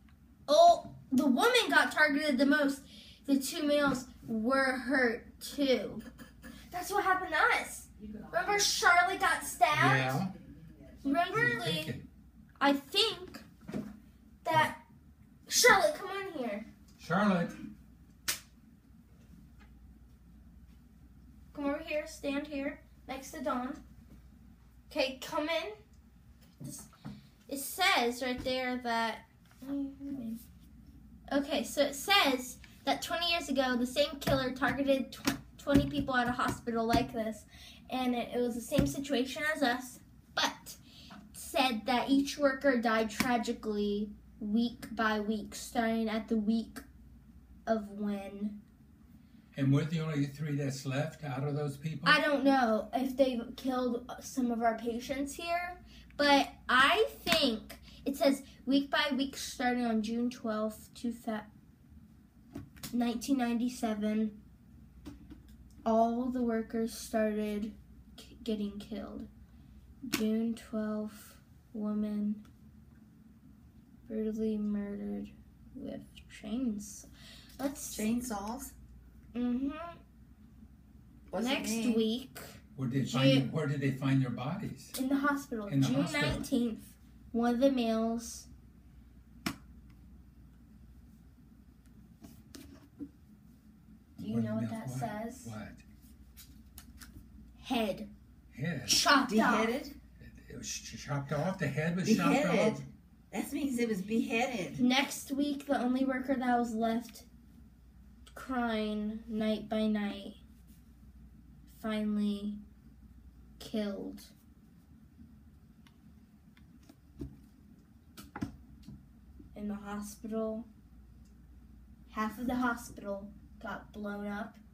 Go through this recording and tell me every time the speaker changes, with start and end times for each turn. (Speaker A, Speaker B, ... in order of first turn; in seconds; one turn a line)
Speaker A: 0.5-6.0
Speaker A: 6.7-10.2
Speaker B: 9.7-10.3
Speaker C: 10.3-11.1
Speaker A: 11.0-11.9
Speaker B: 11.3-12.1
Speaker A: 12.6-13.4
Speaker A: 14.4-14.8
Speaker A: 15.5-16.7
Speaker B: 17.0-17.6
Speaker A: 21.5-23.8
Speaker A: 24.9-25.8
Speaker A: 26.6-26.9
Speaker A: 27.5-30.4
Speaker A: 31.3-40.8
Speaker A: 41.3-46.8
Speaker A: 47.7-48.6
Speaker B: 49.5-52.2
Speaker A: 52.0-61.5
Speaker A: 62.9-64.4
Speaker A: 65.8-69.3
Speaker A: 70.0-72.4
Speaker A: 74.1-78.1
Speaker C: 77.9-78.7
Speaker A: 79.3-80.0
Speaker C: 81.3-82.0
Speaker A: 81.4-82.5
Speaker B: 82.8-85.0
Speaker A: 83.0-83.5
Speaker A: 85.0-88.5
Speaker B: 85.7-86.5
Speaker B: 94.2-95.8
Speaker A: 94.2-95.5
Speaker A: 97.6-98.1
Speaker B: 98.5-99.0
Speaker A: 98.9-99.8
Speaker C: 99.2-99.9
Speaker B: 100.2-102.8
Speaker C: 102.0-104.8
Speaker A: 104.8-107.3
Speaker A: 108.3-110.4
Speaker A: 111.7-112.6
Speaker A: 113.6-114.3
Speaker A: 119.5-120.7
Speaker A: 122.1-124.6